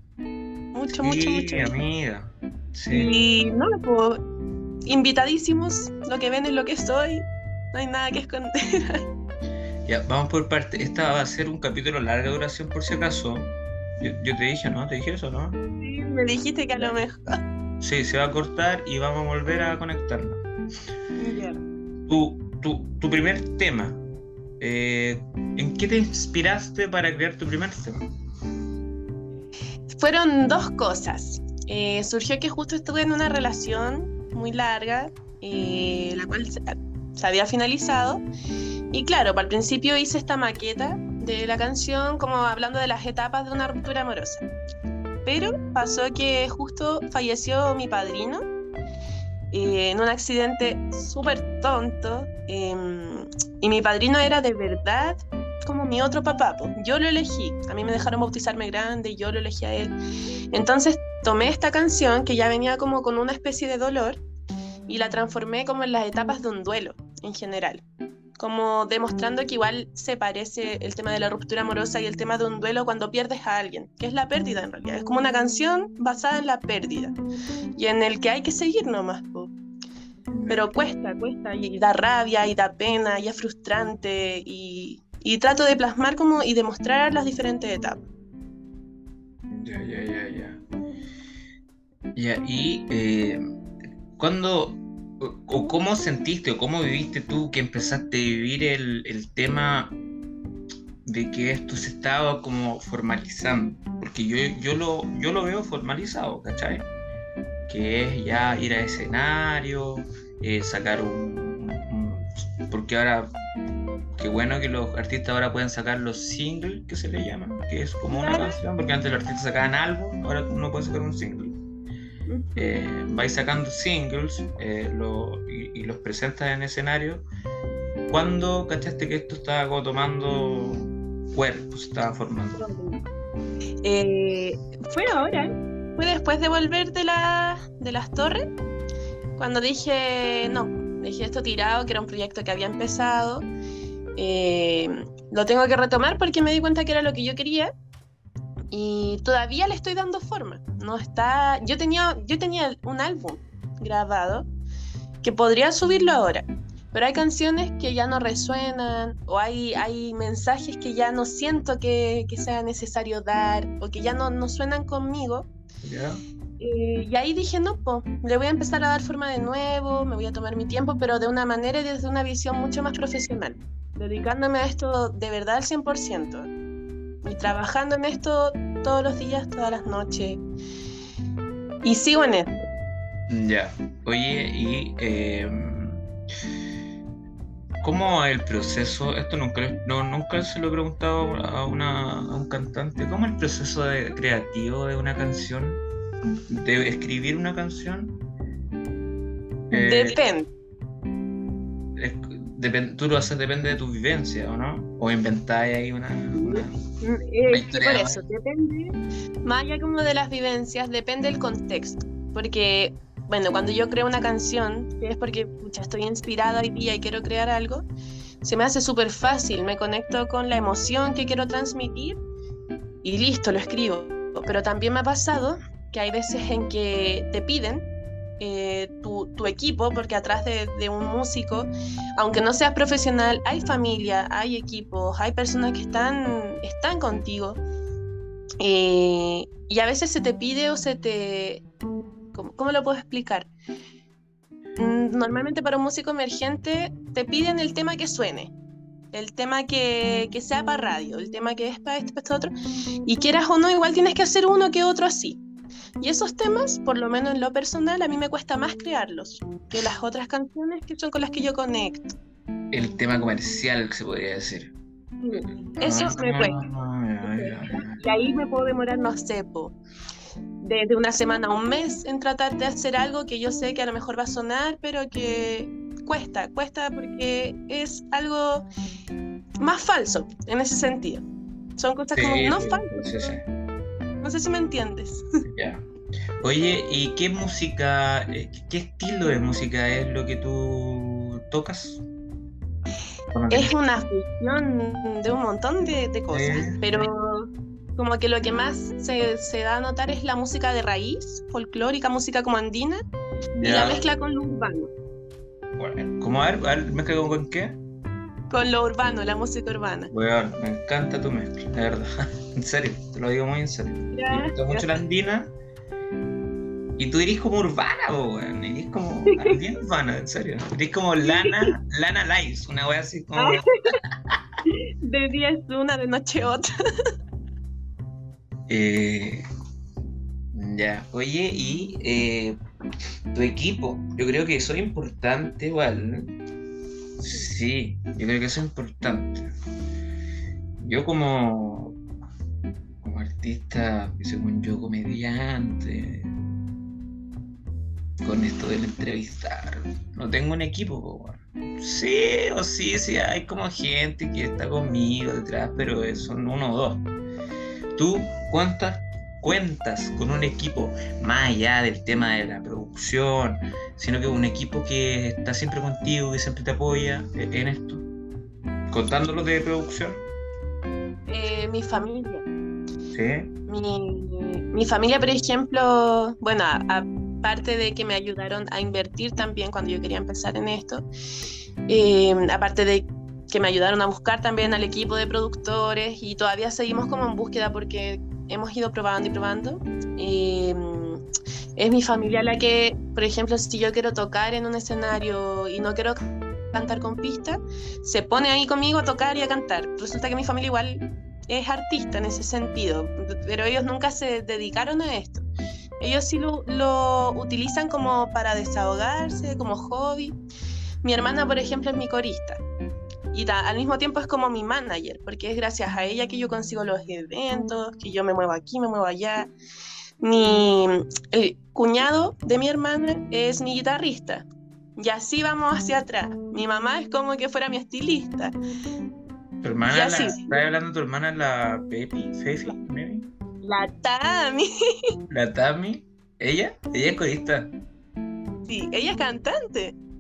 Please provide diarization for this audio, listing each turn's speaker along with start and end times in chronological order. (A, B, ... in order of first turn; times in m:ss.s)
0:00.7-0:01.8 A
0:00.9-0:03.1 B
0:02.9-0:04.2 A
0:04.9-0:09.0 A
0:09.9-0:15.6 B
0:15.8-0:17.4 A
0:17.8-0:20.4 B
0:21.2-0:21.6 A
0:22.1-0:24.0 B
0:24.6-0:28.0 B
0:30.0-0:38.2 A
0:38.9-0:44.4 A
0:45.2-0:48.4 A
0:49.5-0:59.9 A
1:00.5-1:04.2 A
1:04.9-1:07.8 A
1:08.4-1:17.2 A
1:17.8-1:19.5 A
1:20.3-1:20.7 B
1:20.5-1:28.0 A
1:29.5-1:30.6 B
1:32.2-1:33.4 B
1:34.2-1:40.0 B
1:41.0-1:46.9 B
1:47.7-1:53.3 B
1:54.2-2:01.6 B
1:58.1-1:58.6 A
2:02.3-2:02.8 A
2:02.6-2:07.3 B
2:08.1-2:12.7 B
2:12.6-2:13.0 A
2:13.8-2:18.4 A
2:19.4-2:23.5 A
2:24.2-2:27.7 A
2:28.7-2:34.5 A
2:35.2-2:45.5 A
2:45.8-2:46.2 B
2:46.6-2:56.5 A
2:57.2-3:00.4 A
3:01.8-3:02.5 A
3:03.3-3:06.0 B
3:07.8-3:15.8 B
3:16.5-3:18.2 B
3:19.7-3:20.2 B
3:19.7-3:20.5 A
3:22.0-3:26.7 B
3:26.4-3:37.9 A
3:27.5-3:28.2 B
3:38.4-3:42.2 A
3:43.0-3:47.9 A
3:48.4-3:57.6 A
3:58.6-4:01.6 A
4:02.3-4:03.5 A
4:04.8-4:08.5 A
4:09.1-4:12.5 A
4:13.1-4:15.4 A
4:16.0-4:22.2 A
4:22.7-4:24.7 B
4:25.2-4:26.6 A
4:25.8-4:28.0 B
4:27.2-4:29.7 A
4:30.6-4:38.7 A
4:39.6-4:41.2 A
4:41.8-4:43.3 A
4:42.2-4:43.5 B
4:44.2-4:45.2 A
4:45.5-4:45.8 B
4:46.4-4:52.0 B
4:53.3-4:53.8 B
4:53.5-5:03.0 A
4:56.3-4:57.1 B
5:03.6-5:04.9 A
5:03.6-5:04.0 B
5:05.8-5:07.8 B
5:08.5-5:10.1 A
5:10.1-5:15.5 B
5:14.1-5:14.9 A
5:17.0-5:23.7 B
5:19.3-5:19.6 A
5:21.2-5:21.8 A
5:23.4-5:23.9 A
5:24.7-5:26.7 A
5:28.7-5:29.4 B
5:30.5-5:32.6 B
5:33.3-5:36.3 B
5:37.2-5:39.5 B
5:40.8-5:42.0 B
5:43.0-5:46.3 B
5:48.2-5:57.0 B
5:58.0-6:08.0 B
6:08.9-6:10.3 B
6:11.3-6:12.4 A
6:13.1-6:13.5 B
6:13.7-6:21.0 A
6:21.9-6:31.2 A
6:31.8-6:36.2 A
6:36.7-6:45.5 A
6:46.0-6:50.4 A
6:51.0-6:52.6 A
6:53.3-6:59.5 A
7:00.2-7:04.5 A
7:05.0-7:08.5 A
7:09.6-7:13.3 B
7:09.9-7:10.6 A
7:13.6-7:14.7 A
7:15.3-7:17.7 B
7:18.7-7:20.0 A